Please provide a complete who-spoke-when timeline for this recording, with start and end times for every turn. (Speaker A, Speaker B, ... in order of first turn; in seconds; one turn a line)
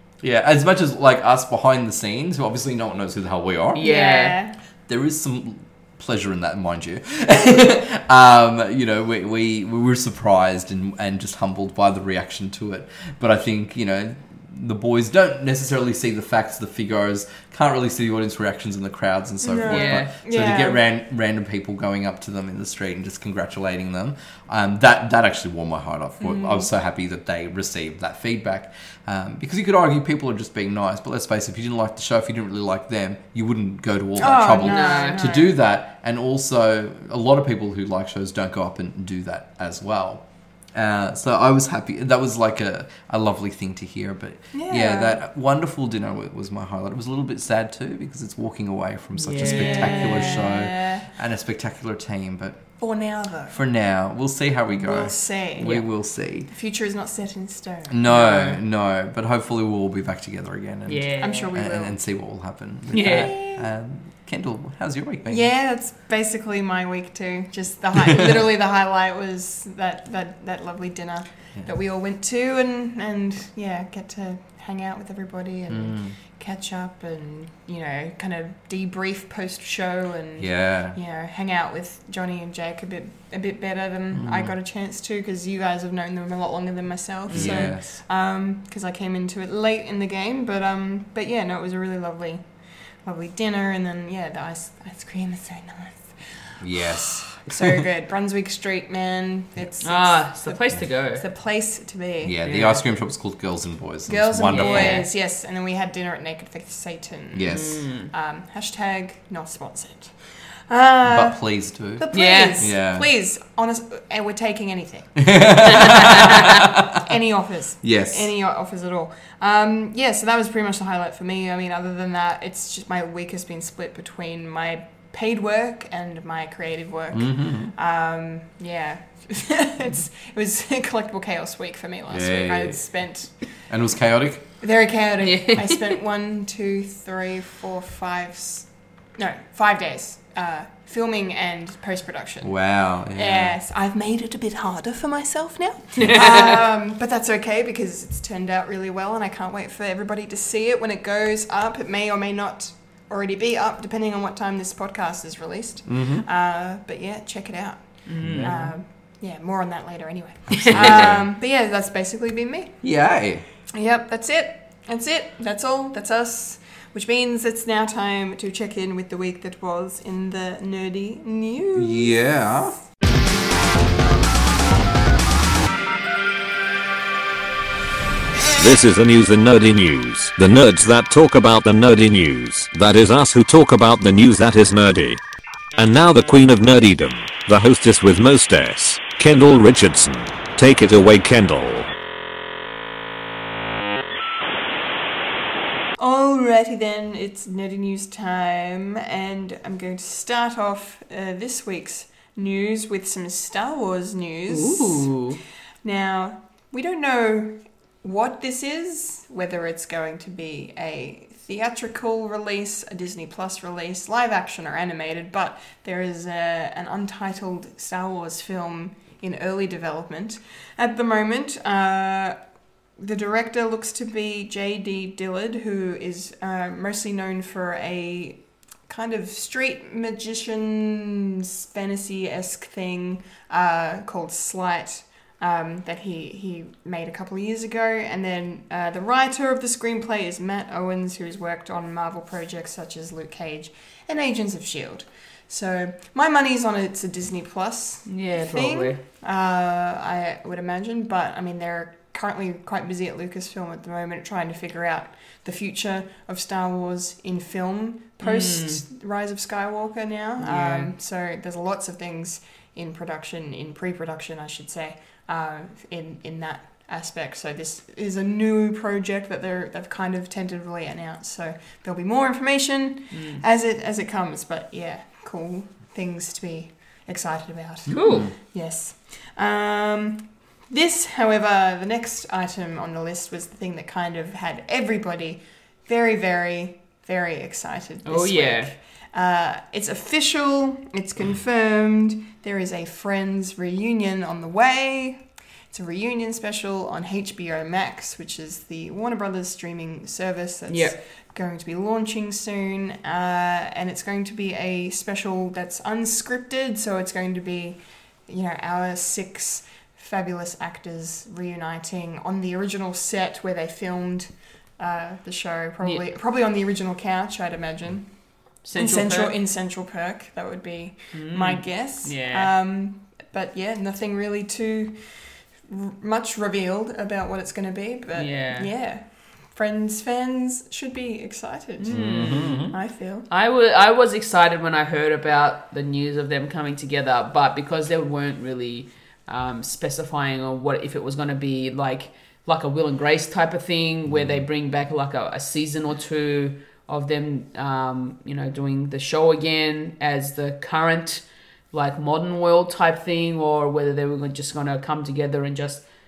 Speaker A: 0.2-3.9
Speaker B: 3.7-4.3
Speaker C: 3.8-4.5
Speaker A: 4.9-52.6
Speaker C: 19.4-20.8
Speaker B: 19.7-20.1
Speaker C: 26.2-26.7
Speaker C: 34.2-35.5
Speaker B: 34.6-35.2
Speaker C: 44.5-45.2
Speaker B: 49.1-50.4
Speaker C: 49.4-51.0
Speaker C: 52.8-53.6
Speaker A: 53.5-56.5
Speaker C: 54.7-55.9
Speaker C: 56.5-58.3
Speaker A: 57.9-65.5
Speaker B: 58.1-58.5
Speaker B: 60.9-61.5
Speaker C: 61.2-62.0
Speaker B: 62.9-63.4
Speaker C: 62.9-63.6
Speaker C: 65.3-92.4
Speaker A: 68.0-68.3
Speaker A: 75.7-76.1
Speaker A: 80.4-81.0
Speaker A: 84.1-84.5
Speaker B: 87.3-87.7
Speaker A: 87.3-87.9
Speaker C: 93.0-102.4
Speaker A: 96.6-97.7
Speaker B: 99.8-101.2
Speaker A: 102.2-105.0
Speaker B: 102.4-102.8
Speaker C: 104.1-110.1
Speaker B: 104.5-105.1
Speaker A: 107.3-107.8
Speaker B: 107.5-108.1
Speaker C: 110.7-111.4
Speaker A: 111.0-112.1
Speaker C: 112.0-115.3
Speaker B: 112.1-112.6
Speaker A: 112.6-113.1
Speaker A: 115.2-117.0
Speaker B: 115.7-116.5
Speaker C: 117.0-133.3
Speaker A: 117.8-118.3
Speaker A: 127.1-127.7
Speaker A: 132.1-132.8
Speaker A: 133.7-134.4
Speaker C: 134.6-142.6
Speaker B: 135.2-135.8
Speaker A: 142.4-143.6
Speaker C: 143.1-162.8
Speaker A: 155.9-156.2
Speaker B: 158.1-158.7
Speaker A: 158.2-158.7
Speaker A: 160.6-161.2
Speaker A: 162.8-163.4
Speaker C: 163.7-172.2
Speaker A: 171.7-172.8
Speaker D: 178.5-185.2
Speaker D: 185.8-191.9
Speaker C: 196.0-205.2
Speaker B: 204.5-205.4
Speaker C: 205.8-207.5
Speaker C: 208.0-222.4
Speaker C: 223.0-318.1
Speaker B: 248.1-249.0
Speaker B: 258.2-258.8
Speaker B: 260.4-260.9
Speaker B: 273.1-273.4
Speaker A: 277.9-278.3
Speaker B: 277.9-278.3
Speaker B: 288.0-288.7
Speaker B: 300.7-300.9
Speaker B: 318.6-319.3
Speaker C: 318.7-325.1
Speaker B: 321.1-322.5
Speaker C: 325.6-333.3
Speaker B: 328.1-328.7
Speaker B: 331.8-332.7
Speaker A: 331.9-332.7
Speaker B: 333.3-355.8
Speaker A: 344.1-344.4